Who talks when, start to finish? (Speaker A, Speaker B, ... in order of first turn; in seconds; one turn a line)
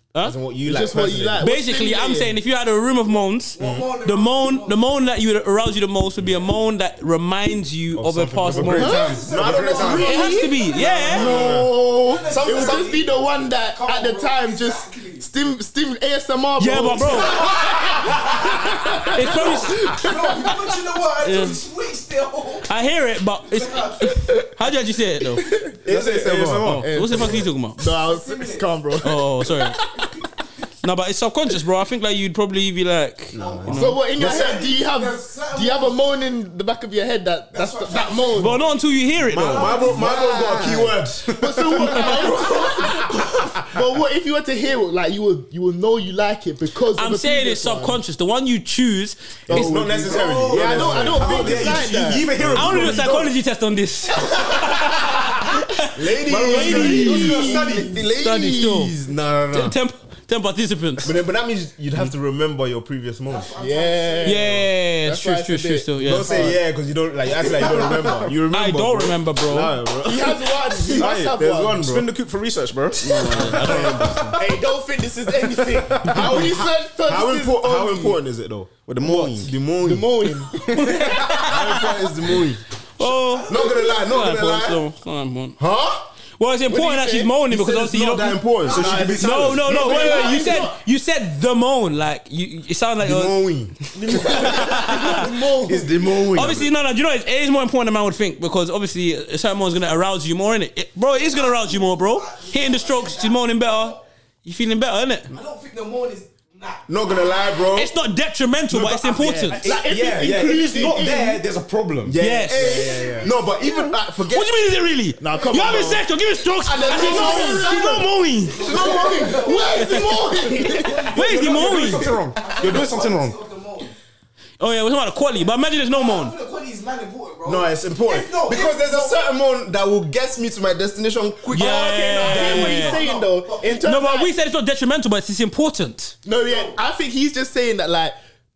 Speaker A: 0.2-1.5
Speaker B: 0.6-2.4
Speaker C: 1.4-9.2
Speaker D: 3.5-4.8
Speaker A: 3.6-3.8
Speaker A: 8.0-12.9
Speaker E: 8.4-10.0
Speaker D: 8.8-10.6
Speaker B: 8.8-20.6
Speaker C: 9.8-11.3
Speaker E: 10.8-11.6
Speaker D: 11.5-15.3
Speaker C: 16.6-17.4
Speaker D: 17.1-18.2
Speaker C: 19.1-19.9
Speaker D: 19.8-22.8
Speaker C: 21.2-21.6
Speaker C: 22.7-25.4
Speaker D: 23.4-24.3
Speaker B: 25.4-25.8
Speaker A: 25.9-26.8
Speaker E: 25.9-27.3
Speaker C: 26.6-27.8
Speaker B: 26.8-30.1
Speaker D: 27.8-29.0
Speaker C: 29.0-29.8
Speaker C: 30.8-34.0
Speaker A: 33.3-34.5
Speaker D: 33.4-36.1
Speaker B: 33.8-38.6
Speaker D: 37.5-40.9
Speaker C: 38.4-39.8
Speaker A: 39.2-41.4
Speaker B: 41.3-48.0
Speaker C: 46.9-49.8
Speaker A: 49.5-53.0
Speaker B: 49.5-52.4
Speaker E: 49.7-53.3
Speaker C: 52.5-57.5
Speaker D: 54.3-54.6
Speaker A: 56.0-59.8
Speaker B: 56.3-57.9
Speaker E: 56.3-58.0
Speaker C: 58.1-59.0
Speaker C: 59.5-61.1
Speaker A: 61.0-63.5
Speaker D: 63.3-64.6
Speaker B: 63.6-66.6
Speaker C: 64.2-66.5
Speaker A: 66.0-72.1
Speaker D: 67.3-68.1
Speaker E: 67.7-68.3
Speaker C: 68.5-69.8
Speaker B: 70.0-71.9
Speaker E: 70.9-74.4
Speaker C: 73.0-74.4
Speaker A: 73.0-74.3
Speaker B: 74.3-78.2
Speaker E: 75.5-76.5
Speaker A: 76.0-84.8
Speaker E: 78.9-79.5
Speaker B: 79.0-81.2
Speaker C: 80.7-82.0
Speaker C: 83.0-85.6
Speaker D: 83.2-84.0
Speaker A: 85.6-86.1
Speaker C: 86.4-88.5
Speaker B: 86.7-87.3
Speaker A: 87.5-89.7
Speaker B: 88.7-90.8
Speaker E: 88.7-90.1
Speaker C: 89.0-93.4
Speaker A: 93.0-94.4
Speaker E: 93.9-96.7
Speaker B: 94.1-96.1
Speaker C: 94.1-95.3
Speaker C: 96.3-105.3
Speaker D: 101.2-104.0
Speaker D: 105.3-107.4
Speaker A: 106.9-107.9
Speaker C: 107.8-109.6
Speaker B: 108.7-111.5
Speaker E: 109.6-112.2
Speaker A: 112.0-114.6
Speaker C: 112.2-112.9
Speaker B: 112.5-113.5
Speaker D: 112.8-113.3
Speaker C: 114.2-118.6
Speaker B: 115.2-116.1
Speaker A: 116.6-117.9
Speaker B: 116.8-117.9
Speaker D: 116.9-120.2
Speaker B: 118.6-121.2
Speaker A: 118.6-119.6
Speaker C: 119.8-120.1
Speaker D: 120.8-124.0
Speaker E: 120.9-123.4
Speaker C: 121.0-122.1
Speaker C: 124.6-126.3
Speaker D: 125.3-129.3
Speaker A: 127.4-131.7
Speaker B: 131.5-134.3
Speaker C: 131.5-133.0
Speaker D: 131.8-133.8
Speaker C: 133.8-136.2
Speaker B: 136.2-138.2
Speaker D: 136.4-136.8